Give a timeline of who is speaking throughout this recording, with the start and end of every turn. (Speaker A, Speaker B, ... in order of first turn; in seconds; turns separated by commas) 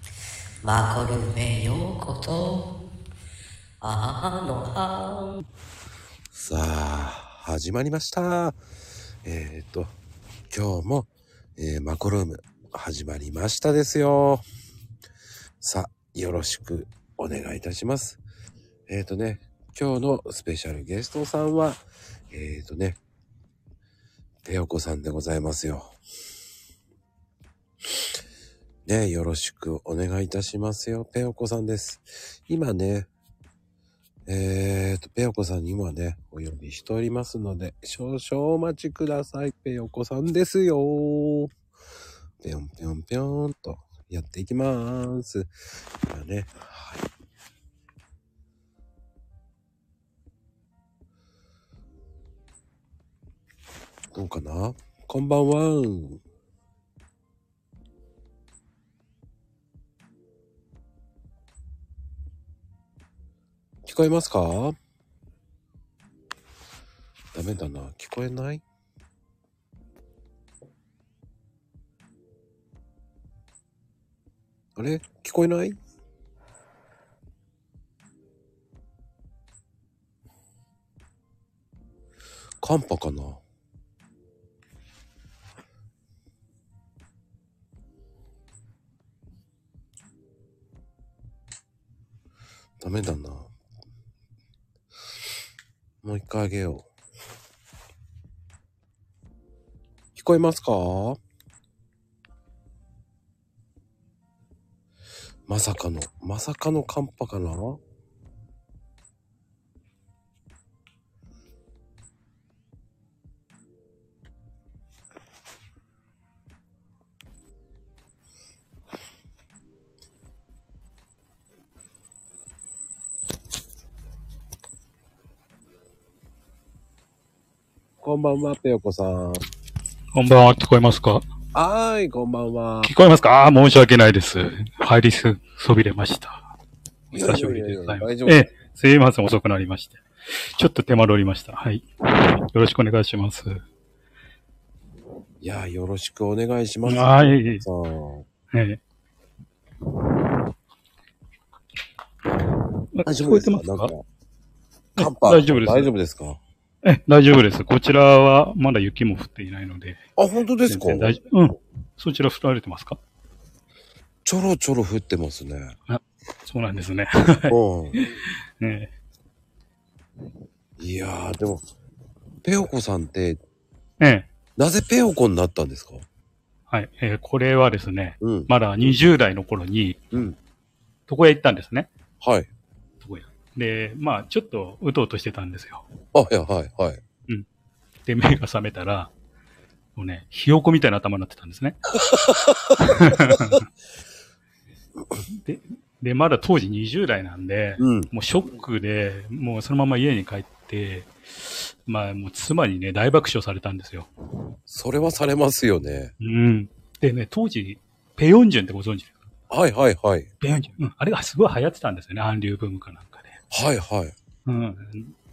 Speaker A: 0.6-2.6, Speaker A: 3.8-5.4, Speaker B: 6.3-8.6, Speaker B: 9.2-9.9, Speaker B: 10.5-14.4, Speaker B: 15.6-18.2, Speaker B: 18.9-23.0, Speaker B: 24.4-26.0, Speaker B: 28.9-33.1, Speaker B: 34.3-41.5, Speaker B: 42.4-45.5, Speaker B: 46.1-47.1, Speaker B: 54.1-56.2, Speaker B: 63.9-64.8, Speaker B: 67.3-68.6, Speaker B: 74.8-75.8, Speaker B: 82.6-83.4, Speaker B: 92.8-93.5, Speaker B: 96.0-96.9, Speaker B: 100.2-101.2, Speaker B: 105.5-107.8, Speaker B: 128.0-129.4, Speaker C: 130.1-131.2, Speaker B: 131.5-132.9, Speaker C: 132.8-136.5, Speaker B: 137.1-138.4, Speaker C: 137.1-143.6, Speaker B: 145.4-148.2, Speaker C: 146.9-147.6, Speaker C: 148.5-148.8, Speaker C: 152.9-153.9, Speaker B: 153.1-154.0, Speaker C: 155.0-155.9, Speaker B: 155.0-156.4, Speaker C: 156.8-160.0, Speaker B: 160.2-161.2, Speaker C: 160.7-163.0, Speaker B: 164.2-165.8, Speaker C: 165.9-168.9, Speaker B: 167.5-168.0, Speaker B: 170.8-171.7, Speaker B: 172.4-173.4, Speaker C: 174.0-174.3, Speaker B: 174.6-176.1, Speaker C: 176.7-180.0, Speaker B: 178.2-179.0, Speaker C: 181.1-181.9, Speaker B: 182.2-182.5, Speaker C: 183.0-185.9, Speaker B: 186.1-187.0, Speaker C: 188.1-189.1, Speaker C: 190.0-191.8, Speaker B: 192.1-193.5, Speaker C: 192.8-193.6, Speaker C: 195.3-204.1, Speaker B: 197.8-198.1, Speaker B: 204.7-206.1, Speaker C: 206.2-209.3, Speaker B: 209.5-210.3, Speaker C: 210.4-213.4, Speaker B: 213.5-214.1, Speaker C: 214.5-215.1